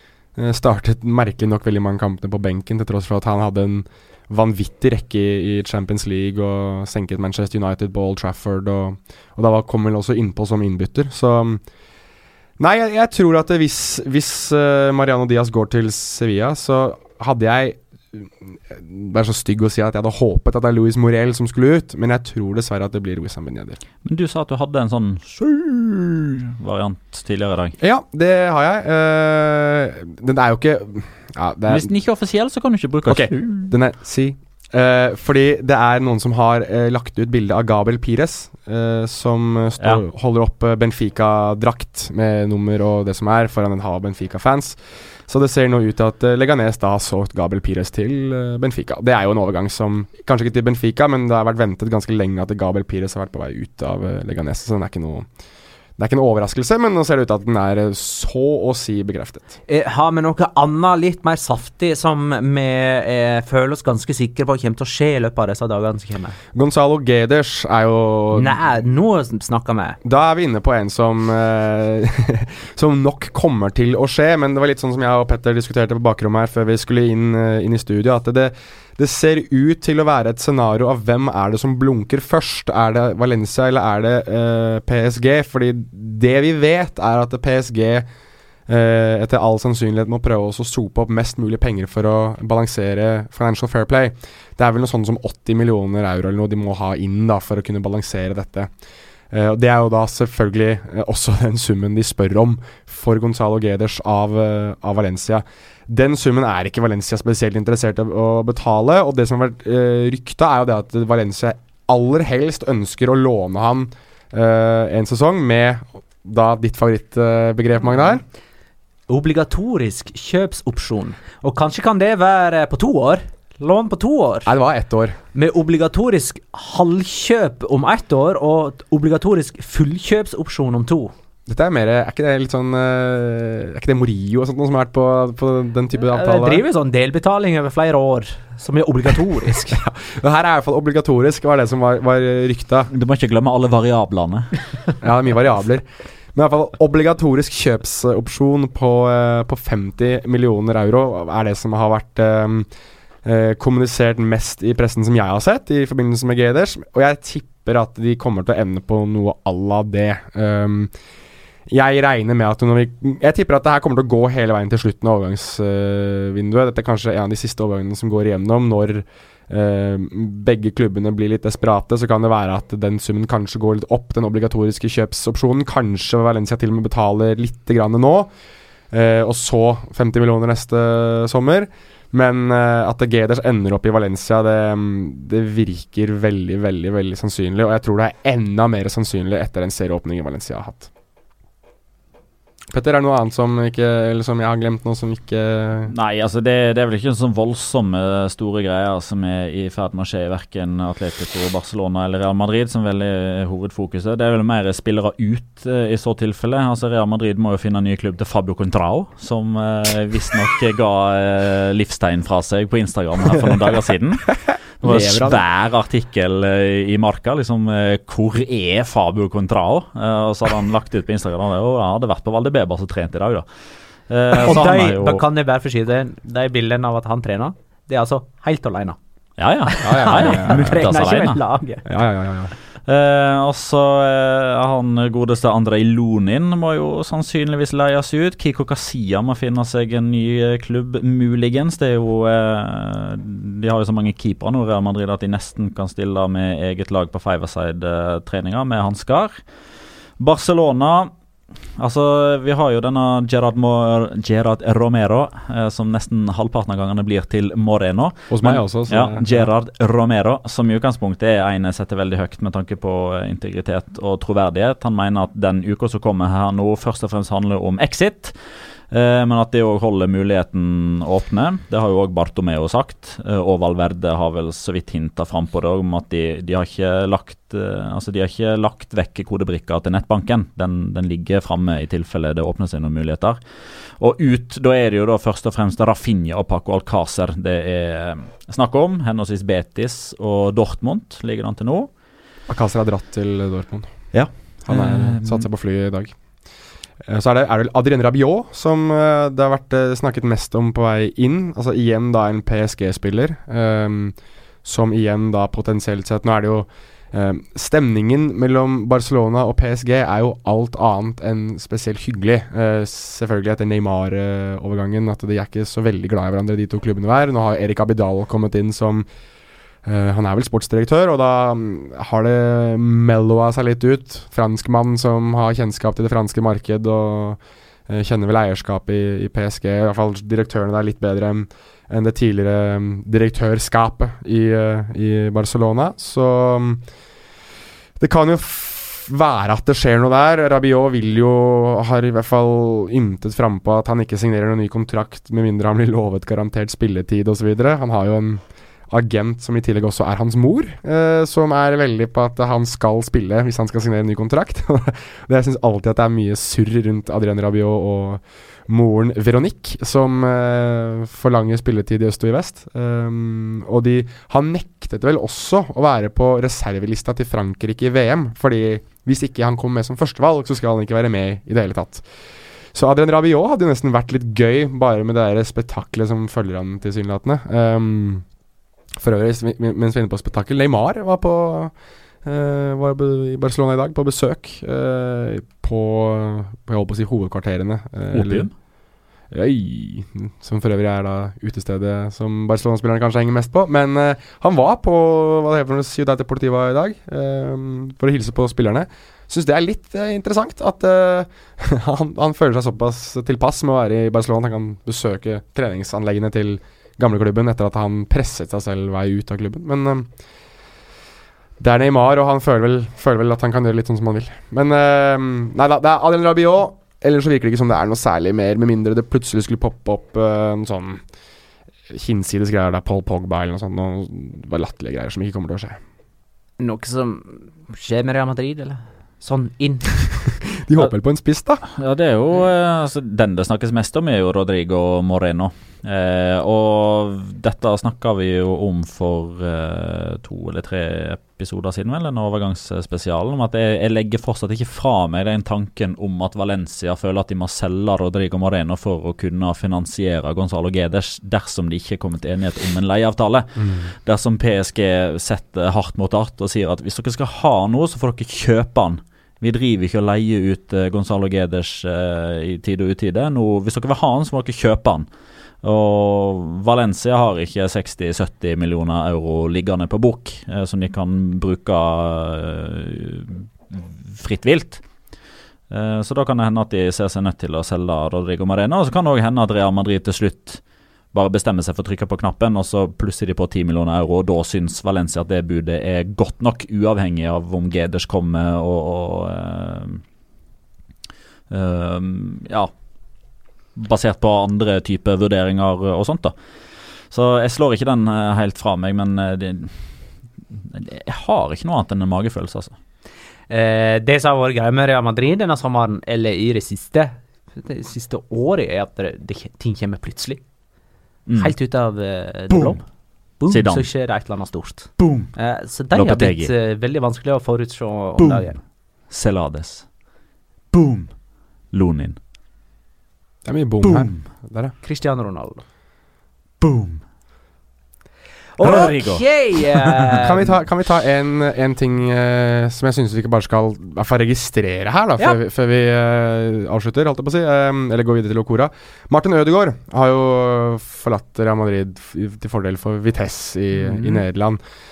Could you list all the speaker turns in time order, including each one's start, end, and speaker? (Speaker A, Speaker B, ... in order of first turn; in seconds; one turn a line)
Speaker A: 0.4-11.6
Speaker A: 12.6-23.8
Speaker B: 24.1-27.8
Speaker A: 27.8-31.9
Speaker B: 31.7-33.8
Speaker A: 33.1-55.3
Speaker A: 56.0-59.5
Speaker C: 59.7-66.4
Speaker A: 66.5-68.6
Speaker C: 68.3-70.0
Speaker A: 70.0-88.1
Speaker A: 88.7-98.7
Speaker A: 99.3-118.2
Speaker C: 119.1-124.5
Speaker A: 124.5-125.2
Speaker C: 125.3-131.1
Speaker A: 131.5-136.6
Speaker C: 136.1-139.8
Speaker A: 139.7-142.9
Speaker B: 142.9-144.8
Speaker A: 145.0-152.7
Speaker A: 153.2-160.9
Speaker A: 161.7-178.3
Speaker A: 178.9-190.9
Speaker A: 192.7-195.9
Speaker B: 195.9-223.5
Speaker A: 214.8-215.4
Speaker B: 224.1-225.2
Speaker C: 224.4-229.0
Speaker B: 229.4-231.4
Speaker C: 229.7-231.8
Speaker A: 229.8-230.8
Speaker A: 231.9-232.5
Speaker B: 232.9-249.4
Speaker B: 250.2-251.1
Speaker B: 251.8-268.4
Speaker A: 258.3-259.5
Speaker B: 268.9-283.4
Speaker B: 284.0-291.9
Speaker A: 292.5-294.1
Speaker B: 294.1-295.5
Speaker A: 294.7-296.2
Speaker A: 297.1-319.1
Speaker A: 319.9-336.8
Speaker A: 338.0-372.1
Speaker A: 372.7-378.3
Speaker A: 379.0-381.7
Speaker A: 382.2-388.5
Speaker B: 388.1-388.5
Speaker A: 389.3-410.1
Speaker A: 411.6-421.0
Speaker A: 421.9-425.8
Speaker C: 426.6-429.9
Speaker A: 430.6-431.6
Speaker B: 431.6-465.1
Speaker A: 453.6-453.9
Speaker B: 465.6-474.8
Speaker B: 475.7-480.6
Speaker B: 481.1-490.0
Speaker B: 491.5-492.7
Speaker B: 493.8-496.3
Speaker B: 497.1-499.9
Speaker B: 500.5-502.7
Speaker C: 503.5-510.4
Speaker B: 511.3-511.5
Speaker C: 511.4-512.8
Speaker B: 512.5-512.8
Speaker C: 513.4-518.6
Speaker B: 513.5-513.9
Speaker B: 515.0-515.3
Speaker B: 515.9-516.5
Speaker B: 518.2-518.5
Speaker B: 519.1-519.9
Speaker B: 520.7-521.1
Speaker B: 521.7-522.2
Speaker A: 523.5-524.7
Speaker B: 523.8-524.2
Speaker C: 524.8-525.6
Speaker B: 526.6-527.0
Speaker C: 528.6-530.4
Speaker B: 528.6-530.2
Speaker A: 530.2-544.6